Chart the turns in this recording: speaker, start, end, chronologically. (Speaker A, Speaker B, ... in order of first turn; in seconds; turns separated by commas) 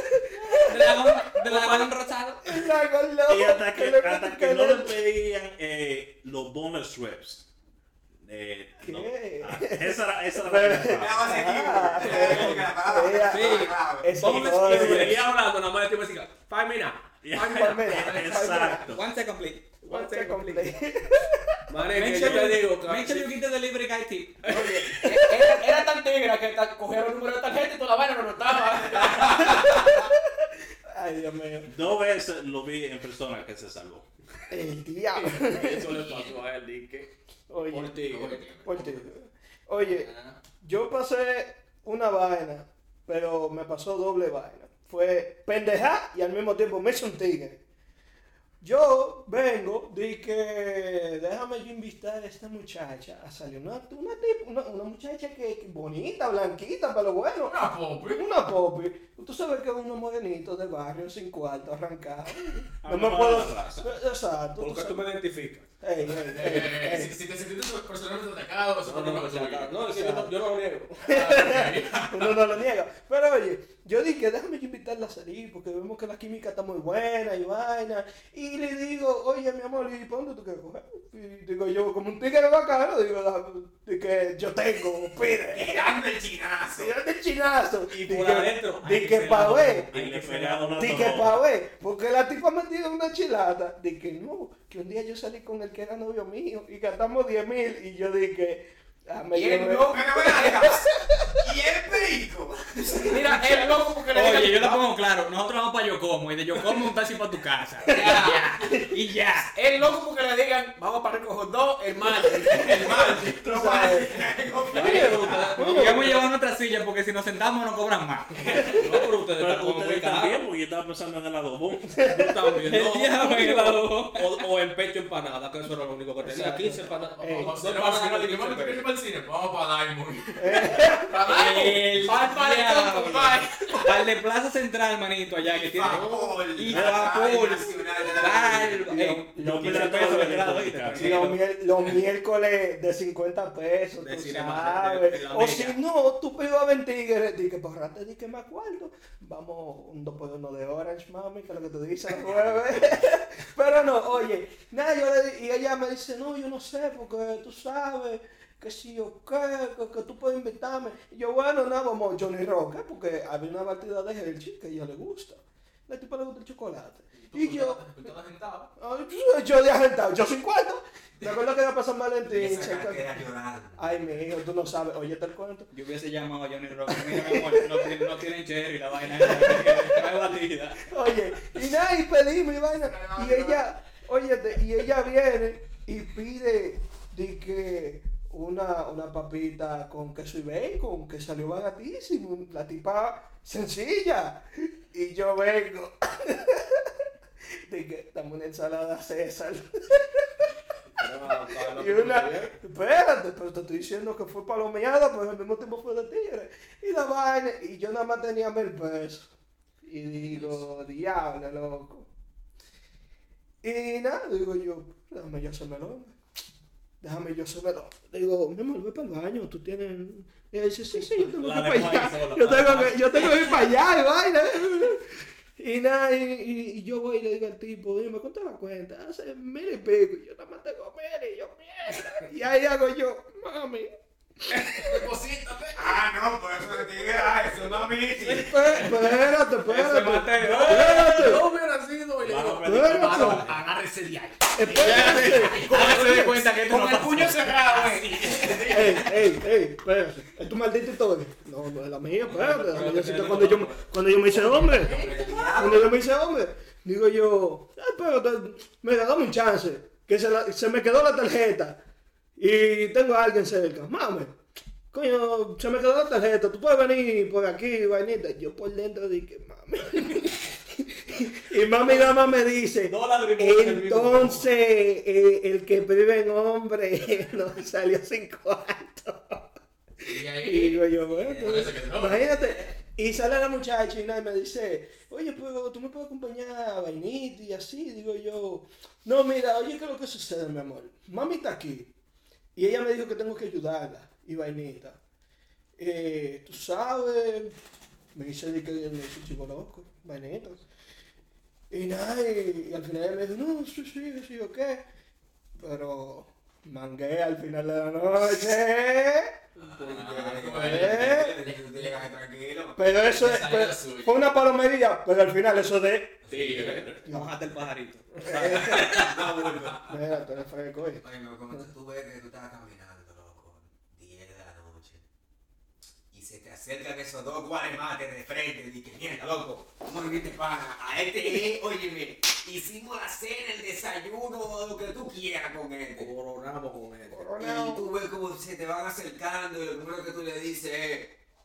Speaker A: 0.1-1.3, Speaker B: 0.4-2.5, Speaker A: 2.5-5.0, Speaker C: 3.3-7.5, Speaker C: 8.2-11.3, Speaker A: 8.8-15.2, Speaker D: 10.9-14.2, Speaker C: 12.1-12.6, Speaker E: 12.2-12.6, Speaker B: 13.3-15.2, Speaker E: 14.2-18.5, Speaker C: 17.2-19.1, Speaker A: 17.4-18.9, Speaker B: 18.9-19.8, Speaker E: 19.8-20.7, Speaker A: 19.9-22.6, Speaker E: 21.7-23.3, Speaker B: 21.9-24.5, Speaker E: 24.4-24.9, Speaker F: 24.5-29.8, Speaker A: 25.1-25.4, Speaker A: 29.4-30.2, Speaker A: 30.9-31.7, Speaker C: 31.7-34.0, Speaker A: 34.5-36.0, Speaker E: 35.1-37.1, Speaker G: 35.9-36.4, Speaker A: 37.5-38.1, Speaker E: 37.7-38.4, Speaker G: 38.0-39.0, Speaker A: 38.6-40.1, Speaker G: 39.8-40.4, Speaker A: 40.6-47.6, Speaker A: 48.6-65.2, Speaker G: 57.5-58.3, Speaker C: 62.8-63.9, Speaker E: 64.6-65.7, Speaker A: 65.8-67.2, Speaker G: 66.1-69.7, Speaker E: 68.8-71.1, Speaker A: 69.8-70.3, Speaker A: 71.1-86.0, Speaker G: 71.1-72.4, Speaker D: 85.5-86.9, Speaker A: 86.7-89.9, Speaker E: 87.9-91.3, Speaker C: 89.9-91.4, Speaker A: 90.8-101.3, Speaker F: 99.3-100.6, Speaker D: 99.9-100.9, Speaker D: 101.4-103.2, Speaker A: 103.0-103.7, Speaker F: 103.0-104.8, Speaker B: 104.1-109.5, Speaker F: 107.9-108.7, Speaker F: 109.4-113.2, Speaker D: 112.5-115.6, Speaker A: 113.4-116.3, Speaker E: 114.7-116.3, Speaker B: 115.6-118.9, Speaker E: 118.7-120.4, Speaker F: 118.9-119.3, Speaker C: 119.2-122.0, Speaker A: 121.9-122.7, Speaker E: 122.0-128.9, Speaker B: 122.6-124.5, Speaker F: 126.2-127.1, Speaker G: 127.2-130.4, Speaker A: 127.2-127.6, Speaker A: 130.4-131.2, Speaker F: 131.1-134.0, Speaker B: 131.2-141.4, Speaker D: 135.4-138.9, Speaker C: 136.7-137.2, Speaker A: 138.8-168.1, Speaker C: 139.4-141.2, Speaker E: 144.0-145.8, Speaker G: 167.1-168.7, Speaker A: 168.8-173.2, Speaker D: 172.2-174.1, Speaker A: 173.8-175.7, Speaker B: 175.7-180.9, Speaker A: 176.9-178.1, Speaker A: 179.2-180.1, Speaker A: 180.8-196.9, Speaker D: 182.8-183.7, Speaker A: 197.7-200.2, Speaker E: 201.0-202.5, Speaker A: 201.7-209.3, Speaker A: 209.8-212.1, Speaker A: 213.6-216.2, Speaker A: 217.0-225.1, Speaker C: 221.1-223.7, Speaker A: 225.6-233.9, Speaker A: 234.5-235.1, Speaker D: 235.7-238.7, Speaker A: 238.2-241.5, Speaker G: 238.7-239.0, Speaker B: 239.7-241.4, Speaker E: 240.4-246.1, Speaker C: 242.2-243.6, Speaker A: 242.7-243.4, Speaker F: 243.2-249.1, Speaker A: 244.6-246.2, Speaker B: 244.8-247.8, Speaker E: 247.7-248.8, Speaker D: 248.5-248.9, Speaker A: 248.7-261.8, Speaker E: 252.3-253.8, Speaker F: 252.8-253.4, Speaker F: 254.3-255.9, Speaker D: 254.8-256.0, Speaker A: 262.4-264.4, Speaker A: 264.9-279.4, Speaker E: 271.9-272.1, Speaker E: 272.9-274.5, Speaker A: 280.0-291.9, Speaker G: 280.0-282.3, Speaker D: 281.2-281.5, Speaker A: 292.6-295.0, Speaker A: 295.8-297.6, Speaker A: 298.1-300.6, Speaker A: 301.7-304.8, Speaker A: 305.6-309.4, Speaker D: 309.6-312.8, Speaker G: 309.6-311.2, Speaker A: 310.6-311.5, Speaker A: 312.8-316.2, Speaker G: 313.0-314.2, Speaker D: 316.2-317.0, Speaker G: 316.3-316.9, Speaker B: 317.0-319.1, Speaker A: 317.1-317.5, Speaker A: 318.2-319.1, Speaker D: 318.6-320.0, Speaker A: 319.9-321.0, Speaker D: 321.0-325.0, Speaker D: 326.1-336.1, Speaker E: 336.0-337.3, Speaker A: 337.1-337.9, Speaker D: 337.4-341.1